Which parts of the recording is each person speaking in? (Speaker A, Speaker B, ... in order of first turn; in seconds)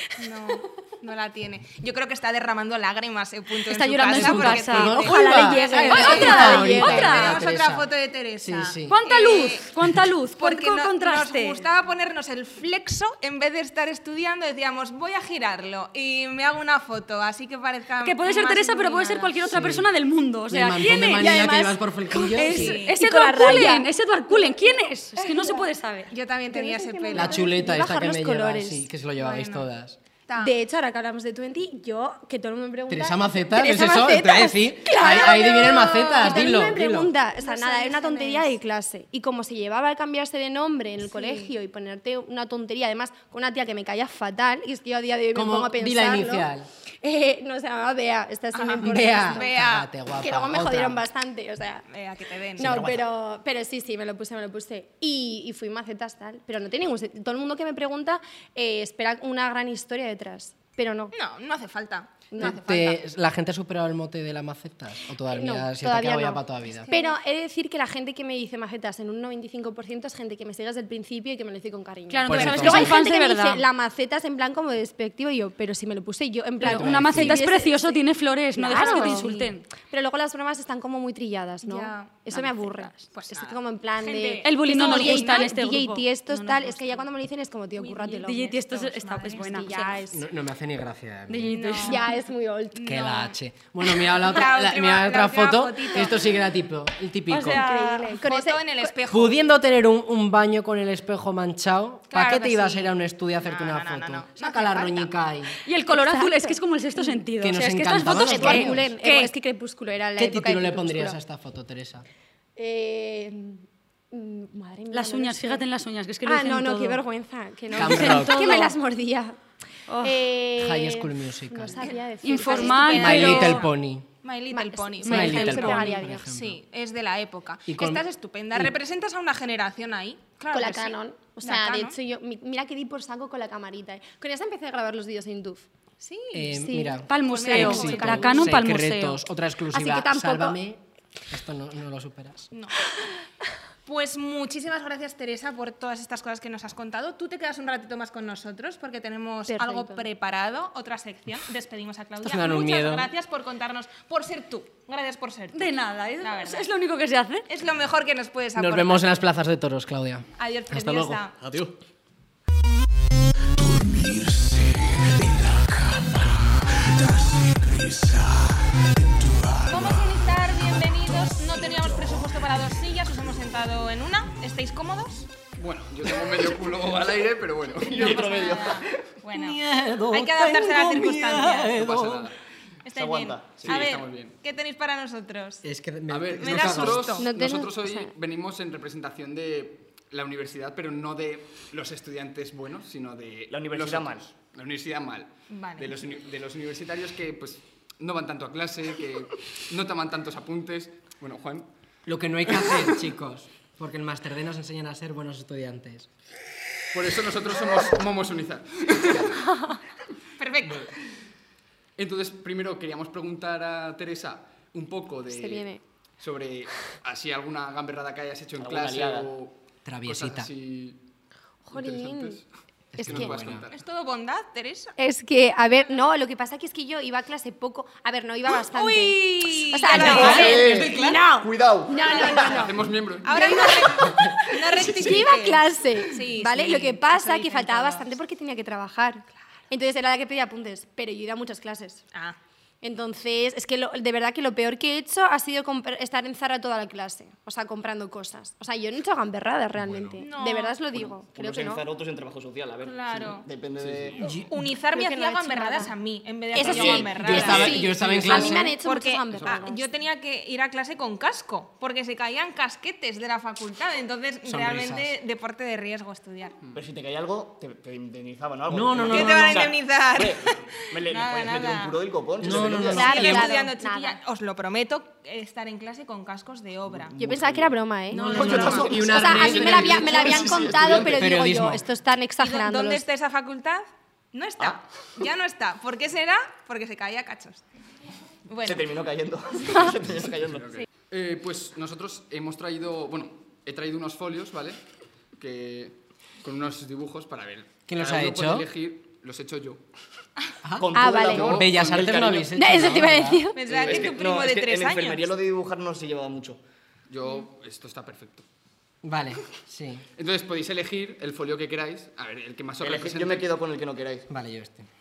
Speaker A: 0.2-9.7, 10.4-19.4, 22.4-23.7, 26.1-27.5, 29.2-29.7, 30.3-30.5, 36.3-36.5, 37.4-38.5, 41.0-41.5, 48.5-49.9, 51.9-52.8, 61.1-63.0, 66.6-67.2, 78.7-79.5, 81.6-85.5, 87.8-90.0, 91.5-92.1, 92.8-93.3, 94.1-96.3, 98.1-99.5, 102.1-105.1, 121.8-123.7, 124.2-132.0, 136.0-138.6, 142.5-142.8, 143.9-156.7, 157.5-159.1, 160.4-161.3, 169.6-175.3, 177.8-181.8, 182.8-185.6, 186.4-187.3, 195.5-195.9, 210.4-210.9, 223.7-224.9, 228.5-230.7, 232.0-232.6, 233.2-238.1, 250.2-250.8, 252.8-253.4, 254.5-257.9, 258.4-266.6, 269.0-272.0, 272.7-277.2, 278.1-279.4, 282.4-287.6, 288.5-288.9, 303.6-305.2
Speaker B: 3.7-7.4, 8.9-11.7, 18.0-21.6, 22.2-26.1, 72.1-73.7, 76.6-79.7, 84.4-87.1, 88.2-90.0, 91.3-92.1, 97.3-98.2, 105.7-109.3, 114.9-117.0, 117.7-118.8, 119.9-120.2, 122.2-123.6, 125.0-125.9, 137.1-139.2, 155.5-157.5
Speaker C: 4.1-7.9, 8.4-9.0, 19.4-19.9, 20.5-22.8, 27.1-30.0, 32.9-37.1, 45.3-46.7, 48.8-51.0, 52.6-53.1, 62.4-66.9, 72.3-73.0, 76.6-77.5, 90.1-91.7, 92.8-97.6, 99.1-105.6, 107.4-108.9, 110.2-112.1, 117.8-118.5, 120.6-121.9, 123.0-124.1, 125.0-126.6, 127.7-128.7, 136.3-142.5, 152.2-153.1, 158.6-161.8, 163.6-168.2, 169.3-169.8, 179.3-182.3, 185.6-187.1, 202.1-206.1, 219.8-220.5, 222.9-223.7, 229.9-231.2, 254.2-254.5, 257.2-258.8, 264.5-265.2, 268.7-269.7, 272.4-273.5, 278.1-281.9, 297.9-298.7, 300.6-303.4, 309.0-310.1, 314.3-314.9
Speaker D: 5.1-7.3, 21.2-21.8, 23.0-25.7, 26.5-28.9, 30.4-46.5, 47.0-49.5, 50.2-51.8, 52.6-61.1, 62.3-62.6, 65.3-78.0, 78.6-88.4, 89.5-90.2, 91.9-93.3, 97.5-98.9, 105.9-107.2, 108.0-111.2, 112.6-115.6, 116.2-119.4, 120.0-123.5, 124.5-126.3, 130.5-135.7, 137.6-137.8, 139.7-140.6, 149.5-150.1, 187.2-188.1, 215.3-215.8, 221.7-222.4, 223.1-223.3, 225.0-242.1, 242.8-251.9, 254.9-255.9, 256.5-259.8, 272.8-274.2, 277.2-283.0, 300.9-301.5, 302.6-303.7
Speaker E: 175.6-178.5, 181.7-182.4, 183.6-184.4, 186.1-201.7, 206.9-209.4, 210.6-210.9, 212.0-221.0, 221.7-222.4, 222.9-223.8, 232.2-233.7, 249.8-250.2, 253.8-254.5, 259.3-259.7, 279.4-281.1, 290.3-294.8, 295.4-299.8, 301.0-302.6, 307.1-308.5, 310.2-313.5
Speaker F: 177.8-179.0, 182.9-183.9, 193.5-194.3, 218.6-219.3, 230.2-232.3, 250.9-254.2, 256.6-258.3, 266.8-273.4, 276.9-277.7, 278.3-281.2, 288.6-290.7, 300.8-302.5, 303.6-306.6, 312.8-314.3